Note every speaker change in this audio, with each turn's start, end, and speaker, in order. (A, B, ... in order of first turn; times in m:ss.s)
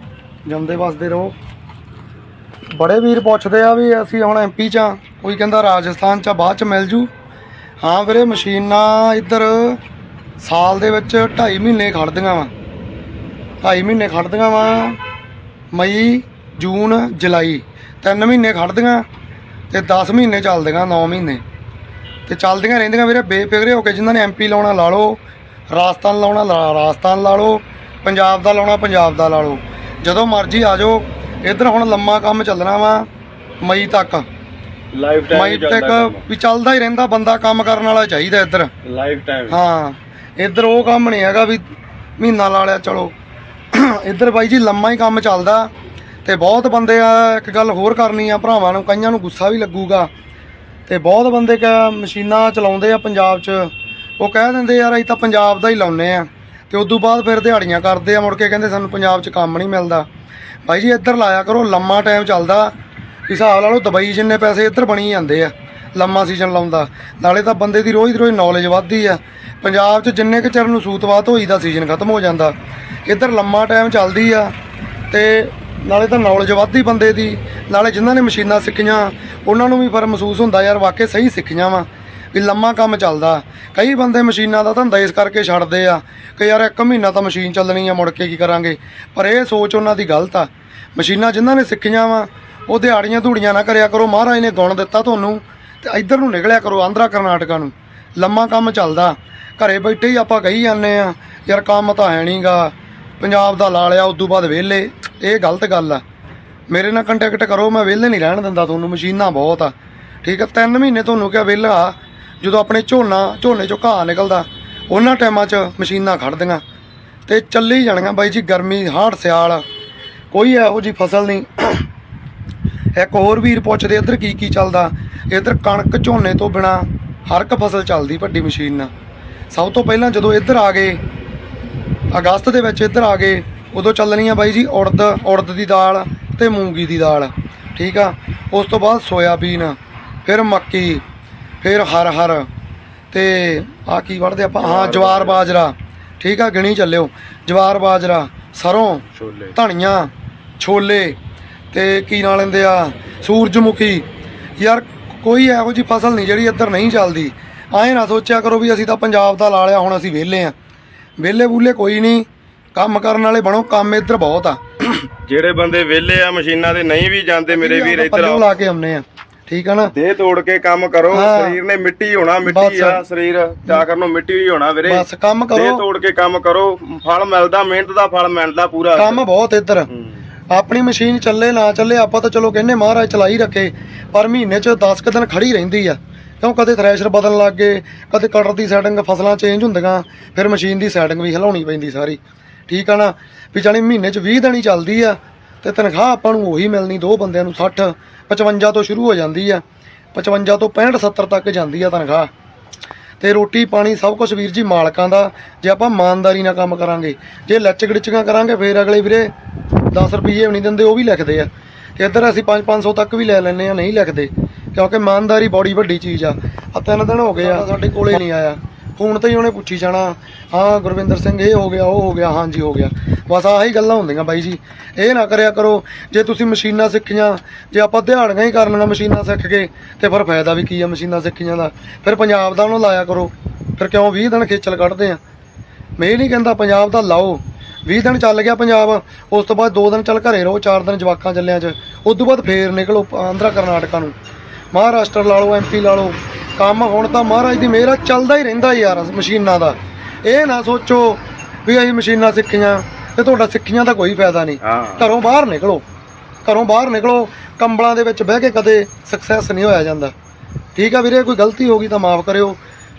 0:00.4-0:01.3 A
0:02.7-0:07.1 A
0:07.8-0:09.8 A
0:10.4-0:12.5 A
0:13.6-0:15.0 A
0:15.7-0:19.0 A
0:19.7-0:21.4 A
0:22.3-0:25.2 A
0:25.7-0:33.1 A
0:33.6-0:34.3 A
0:34.9-0:36.2 B
0:35.3-0:38.7 A
0:38.8-0:39.6 B
0:39.5-0:41.7 A
0:42.2-0:43.1 A
0:43.7-0:45.7 A
0:46.2-0:50.1 A
0:50.9-1:00.1 A
1:00.6-1:02.7 A
1:03.3-1:12.5 A
1:13.0-1:14.5 A
1:15.1-1:46.0 A
1:46.7-1:49.7 A
1:50.2-1:56.6 A
1:57.3-1:59.6 A
2:00.3-2:01.9 A
2:03.0-2:08.9 A
2:09.5-2:11.0 A
2:12.1-2:21.0 A
2:21.6-2:22.5 A
2:23.1-2:31.2 A
2:24.6-2:25.5 B
2:29.2-2:29.5 B
2:31.7-2:34.0 A
2:34.6-2:40.5 A
2:41.2-2:44.9 A
2:45.2-2:48.4 B
2:47.5-2:49.9 A
2:49.9-2:59.2 B
2:51.1-2:51.6 A
2:52.4-2:53.0 A
2:54.8-2:55.8 A
2:59.0-2:59.9 A
3:00.5-3:19.6 A
3:20.1-3:22.3 A
3:23.2-3:29.3 A
3:29.9-3:55.2 A
3:56.0-4:04.1 A
4:04.7-4:15.8 A
4:14.6-4:15.1 B
4:16.4-4:20.1 A
4:20.7-4:22.6 A